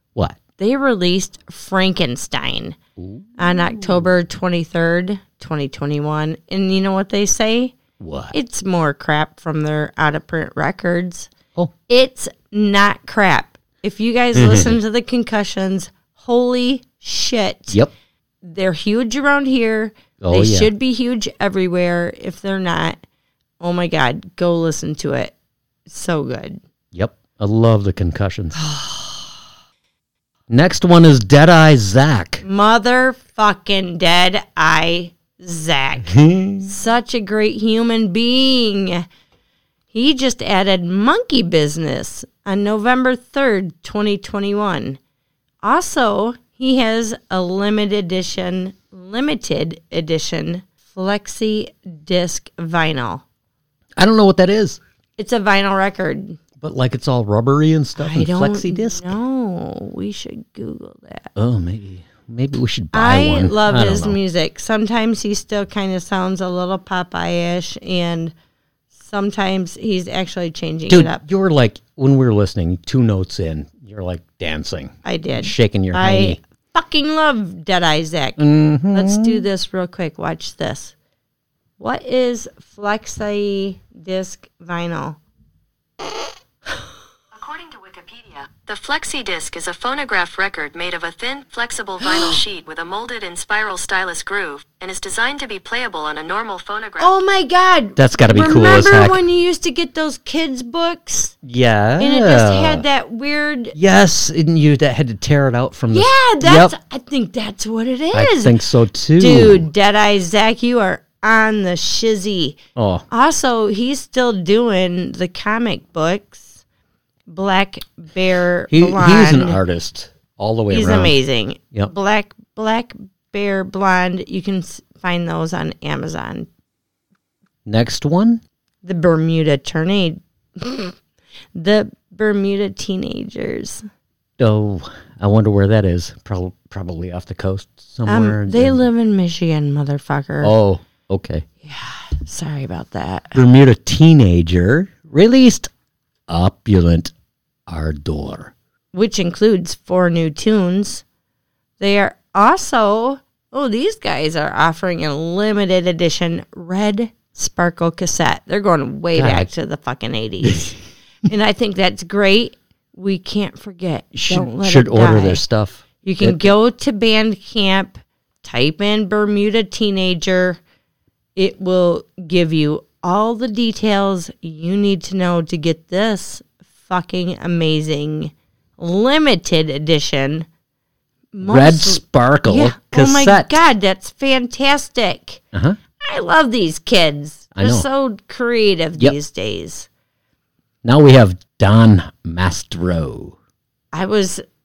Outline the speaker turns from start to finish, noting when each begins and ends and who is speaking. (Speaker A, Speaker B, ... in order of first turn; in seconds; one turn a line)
Speaker A: 0.6-2.8
Speaker B: 3.0-4.0
Speaker A: 3.4-7.8
Speaker B: 8.0-8.3
Speaker A: 8.3-11.3
Speaker A: 11.9-17.8
Speaker B: 14.3-14.8
Speaker A: 18.4-23.0
Speaker B: 20.2-20.7
Speaker A: 23.6-25.3
Speaker A: 25.9-26.6
Speaker B: 26.9-28.6
Speaker A: 28.6-29.4
Speaker B: 30.5-32.4
Speaker A: 32.4-39.0
Speaker B: 36.1-36.7
Speaker A: 39.9-45.0
Speaker A: 45.6-53.2
Speaker B: 54.0-54.8
Speaker A: 55.2-56.4
Speaker B: 56.6-59.2
Speaker A: 58.0-61.3
Speaker B: 61.4-64.2
Speaker A: 62.9-68.3
Speaker A: 68.9-71.2
Speaker B: 70.9-76.4
Speaker A: 75.0-80.9
Speaker B: 78.4-79.4
Speaker A: 81.8-85.2
Speaker C: 87.3-97.1
Speaker A: 92.0-92.4
Speaker A: 97.0-101.3
Speaker B: 98.0-99.2
Speaker B: 101.4-102.8
Speaker A: 102.0-103.8
Speaker B: 103.7-106.7
Speaker A: 105.9-108.5
Speaker B: 108.1-109.7
Speaker A: 109.2-112.6
Speaker B: 112.8-113.0
Speaker A: 113.1-116.6
Speaker A: 117.3-119.6
Speaker B: 118.7-121.2
Speaker A: 120.7-126.5
Speaker B: 127.7-128.4
Speaker A: 128.8-130.9
Speaker A: 131.5-133.8
Speaker B: 134.4-138.8
Speaker A: 138.1-140.5
Speaker B: 140.4-141.4
Speaker A: 141.6-143.4
Speaker B: 143.3-145.7
Speaker B: 146.3-147.1
Speaker B: 147.7-148.5
Speaker A: 148.9-151.0
Speaker A: 151.8-165.4
Speaker B: 159.1-159.5
Speaker B: 160.4-160.7
Speaker B: 164.2-166.5
Speaker A: 166.0-170.6
Speaker A: 171.3-180.5
Speaker A: 181.3-185.4
Speaker B: 181.4-183.6
Speaker B: 185.5-185.8
Speaker A: 186.0-189.9
Speaker B: 187.5-187.8
Speaker B: 190.8-193.3
Speaker A: 193.9-194.4